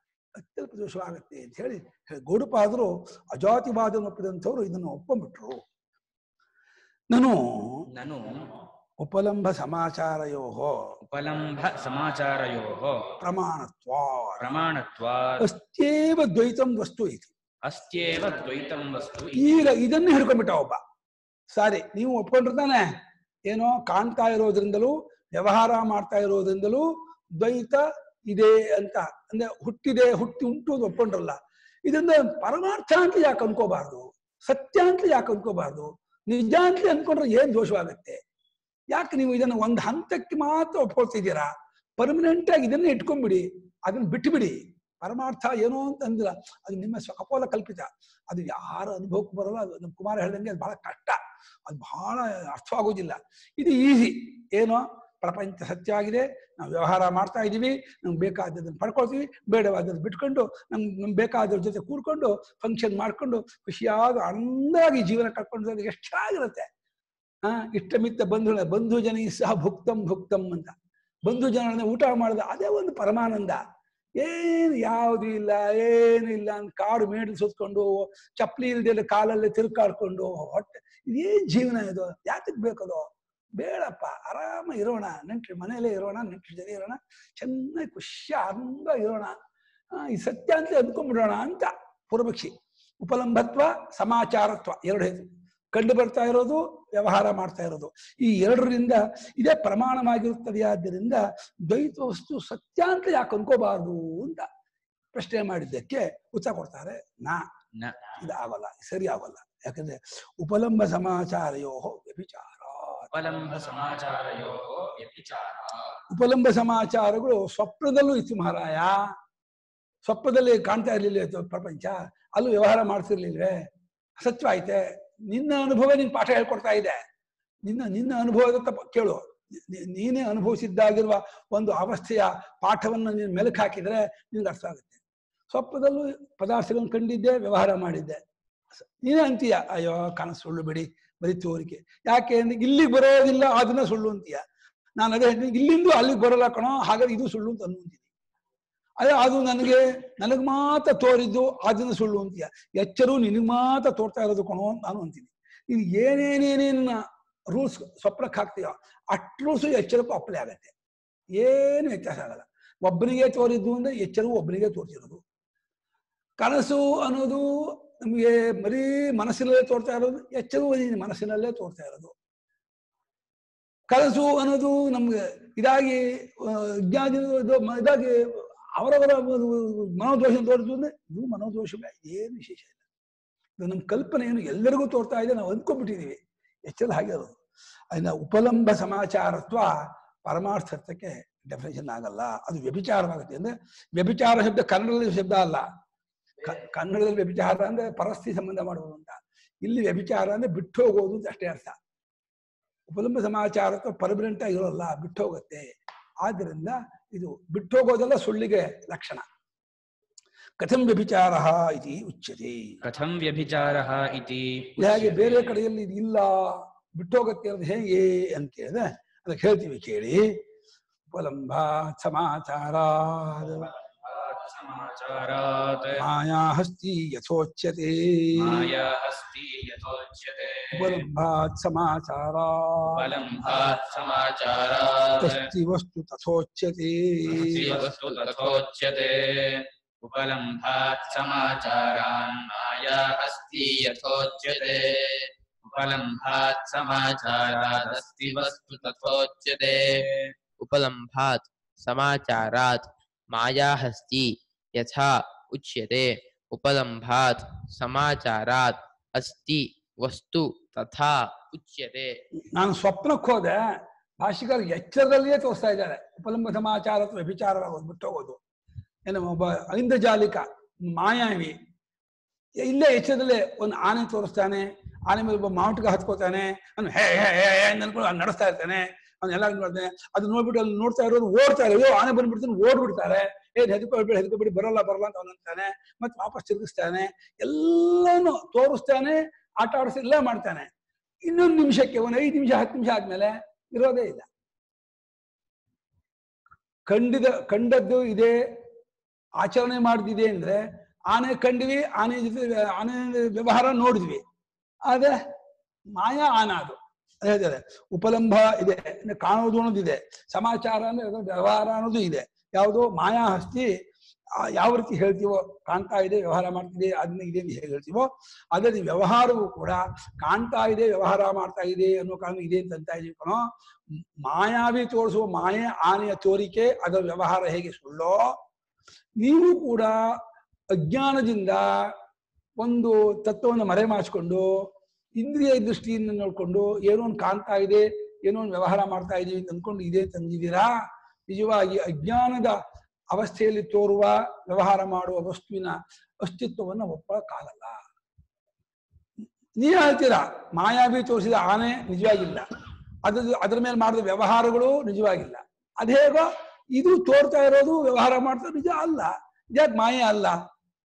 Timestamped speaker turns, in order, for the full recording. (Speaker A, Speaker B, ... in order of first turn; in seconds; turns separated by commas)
Speaker A: 0.3-5.6, Speaker A: 7.1-7.8, Speaker B: 7.9-8.5, Speaker A: 9.0-10.9, Speaker B: 11.0-13.1, Speaker A: 13.2-14.4, Speaker B: 14.4-15.5, Speaker A: 15.4-17.3, Speaker B: 17.6-19.7, Speaker A: 19.3-20.8, Speaker A: 21.5-22.9, Speaker A: 23.5-38.2, Speaker A: 38.9-66.7, Speaker A: 67.4-70.7, Speaker A: 71.2-73.6, Speaker A: 74.2-89.3, Speaker A: 89.9-104.5, Speaker A: 105.1-107.5, Speaker B: 107.7-108.1, Speaker A: 108.2-113.1, Speaker B: 113.1-116.0, Speaker A: 116.1-119.1, Speaker A: 120.0-127.0, Speaker A: 127.6-135.0, Speaker A: 135.5-138.2, Speaker A: 139.0-144.4, Speaker A: 144.9-148.1, Speaker A: 149.0-160.7, Speaker A: 161.3-165.2, Speaker A: 166.4-172.1, Speaker A: 173.9-182.8, Speaker A: 183.6-187.4, Speaker A: 187.9-195.7, Speaker A: 196.4-201.8, Speaker A: 202.9-209.2, Speaker A: 210.6-212.8, Speaker B: 212.8-215.5, Speaker A: 214.8-220.4, Speaker A: 221.1-223.7, Speaker B: 223.9-226.0, Speaker A: 225.9-228.7, Speaker B: 228.3-231.1, Speaker A: 230.7-233.1, Speaker B: 232.9-235.5, Speaker A: 235.2-237.7, Speaker B: 237.2-250.3, Speaker C: 248.4-250.0, Speaker C: 250.6-262.2, Speaker A: 262.5-268.4, Speaker A: 269.1-271.6, Speaker A: 272.6-290.7, Speaker A: 291.2-294.2, Speaker A: 296.9-298.4, Speaker A: 299.4-304.2, Speaker A: 304.8-305.2, Speaker A: 305.9-313.7, Speaker A: 314.4-323.4, Speaker A: 324.2-328.4, Speaker A: 329.2-330.0, Speaker A: 330.7-331.9, Speaker A: 332.6-334.5, Speaker A: 335.2-340.7, Speaker A: 341.3-342.6, Speaker A: 343.1-347.8, Speaker A: 349.6-352.4, Speaker A: 353.0-360.4